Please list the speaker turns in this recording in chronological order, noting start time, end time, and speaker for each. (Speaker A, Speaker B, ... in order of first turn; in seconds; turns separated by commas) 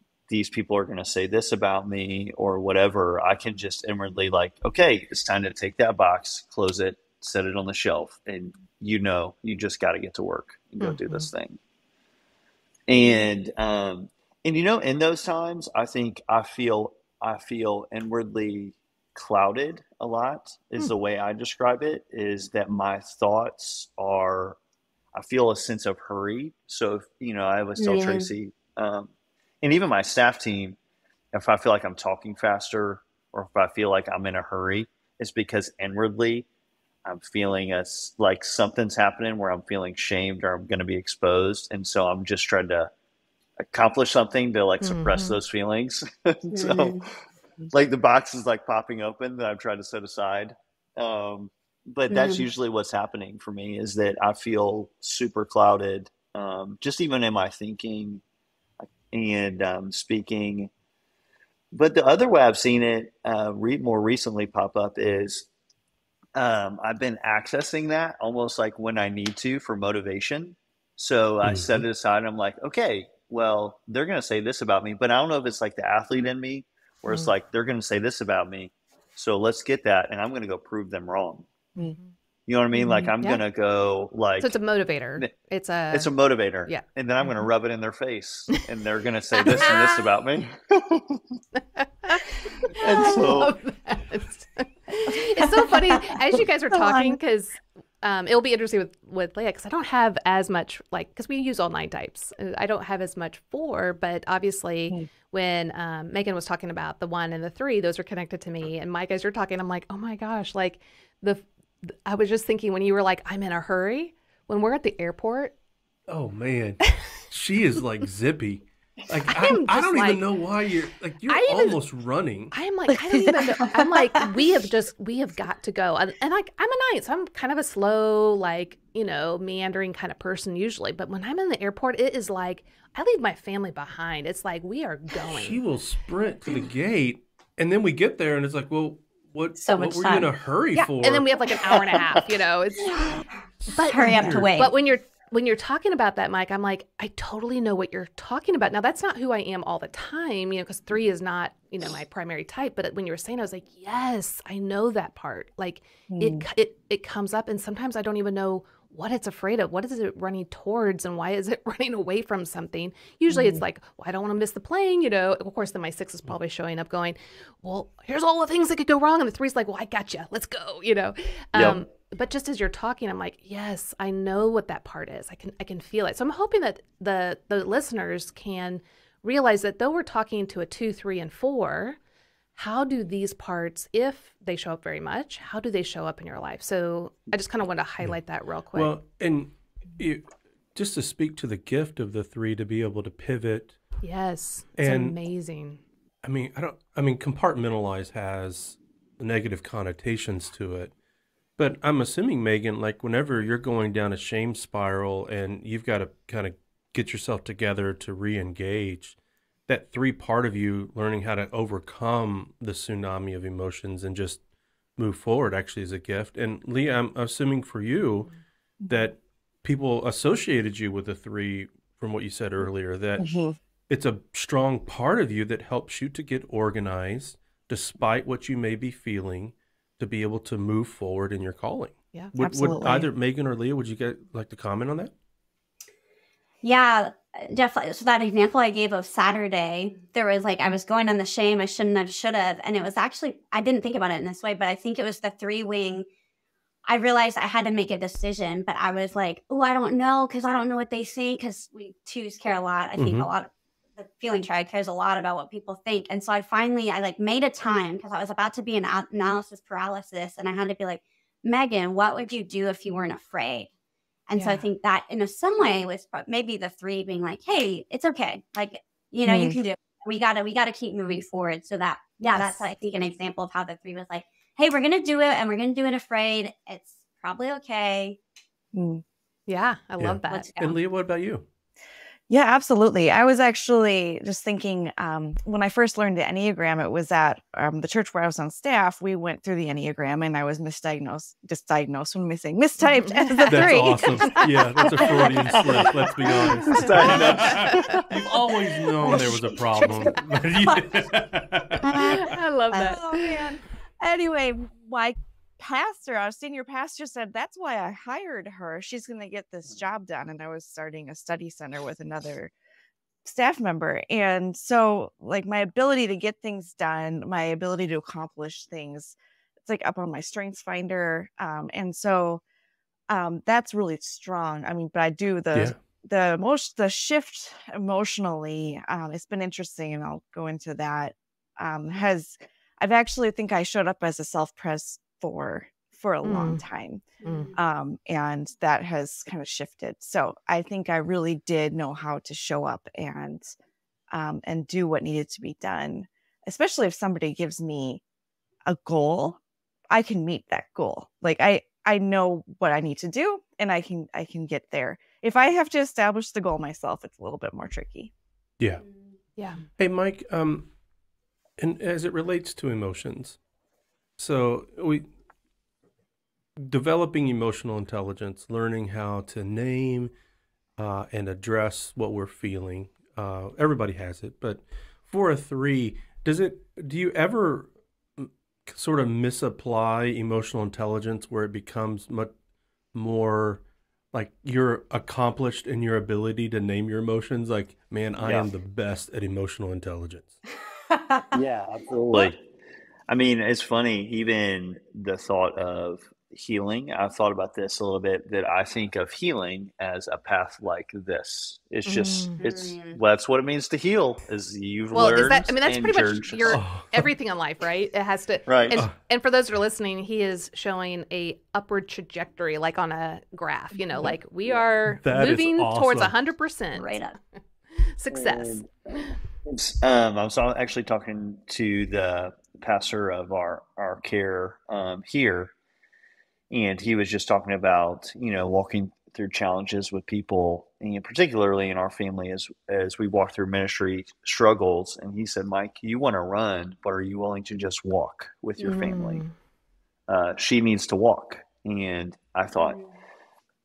Speaker A: 0.3-11.6, Speaker B: 10.8-11.3, Speaker A: 12.9-24.6, Speaker A: 25.1-29.1, Speaker C: 27.8-28.3, Speaker A: 29.6-30.8, Speaker A: 31.3-36.5, Speaker A: 37.0-42.9, Speaker A: 43.6-47.1, Speaker B: 44.8-45.4, Speaker C: 46.5-47.1, Speaker A: 47.7-58.2, Speaker C: 52.1-52.4, Speaker A: 59.0-60.7, Speaker A: 61.7-65.5, Speaker A: 66.3-81.5, Speaker D: 71.4-71.8, Speaker B: 81.8-82.1, Speaker A: 82.5-84.5, Speaker E: 82.7-83.1, Speaker B: 84.4-86.1, Speaker A: 85.9-91.2, Speaker B: 89.4-90.0, Speaker B: 91.8-115.5, Speaker A: 92.6-93.6, Speaker E: 96.7-97.2, Speaker D: 116.1-122.5, Speaker B: 119.3-120.2, Speaker B: 121.2-121.8, Speaker B: 122.5-135.6, Speaker E: 122.9-123.9, Speaker D: 135.3-141.3, Speaker C: 139.6-140.3, Speaker B: 140.7-143.2, Speaker D: 143.7-144.5, Speaker B: 143.7-182.0, Speaker C: 143.7-144.7, Speaker E: 156.1-156.4, Speaker E: 163.3-163.6, Speaker A: 171.5-171.8, Speaker B: 182.6-188.9, Speaker D: 188.7-193.8, Speaker B: 194.0-195.8, Speaker D: 194.8-195.2, Speaker D: 196.2-200.9, Speaker D: 201.6-214.4, Speaker D: 215.0-218.3, Speaker E: 218.8-219.1, Speaker D: 218.9-223.3, Speaker E: 223.2-223.6, Speaker D: 223.9-235.1, Speaker E: 232.3-233.1, Speaker C: 236.6-246.1, Speaker C: 246.8-263.7, Speaker D: 253.0-253.3, Speaker C: 264.3-278.2, Speaker B: 264.4-264.7, Speaker E: 269.2-269.6, Speaker B: 272.3-272.6, Speaker E: 278.7-279.0, Speaker B: 279.5-280.5, Speaker D: 280.0-281.4, Speaker C: 280.3-280.8, Speaker E: 282.3-297.3, Speaker B: 292.8-294.0, Speaker D: 293.5-302.0, Speaker A: 296.6-298.1, Speaker B: 296.8-298.0, Speaker E: 299.0-299.3, Speaker C: 301.8-302.2, Speaker B: 301.9-303.5, Speaker E: 302.7-312.5, Speaker E: 313.2-322.4, Speaker E: 323.1-343.5, Speaker B: 336.2-336.6, Speaker C: 337.2-337.5, Speaker B: 337.2-337.5, Speaker E: 344.1-348.0, Speaker E: 348.6-349.4, Speaker E: 349.9-358.1, Speaker B: 359.4-359.6, Speaker D: 359.8-360.7, Speaker D: 361.6-363.4, Speaker D: 364.2-365.1, Speaker D: 366.6-370.1, Speaker D: 370.8-382.3, Speaker D: 382.9-383.6, Speaker D: 384.1-390.3, Speaker A: 388.2-388.5, Speaker A: 391.3-392.4, Speaker A: 393.1-406.6, Speaker B: 401.9-402.4, Speaker C: 402.4-403.0, Speaker B: 404.9-417.0, Speaker D: 406.5-407.0, Speaker A: 408.5-408.8, Speaker D: 414.9-416.2, Speaker C: 416.7-417.2, Speaker B: 417.8-419.1, Speaker A: 418.1-418.7, Speaker A: 419.4-425.5, Speaker A: 426.5-439.2, Speaker B: 438.7-439.3, Speaker A: 440.1-442.8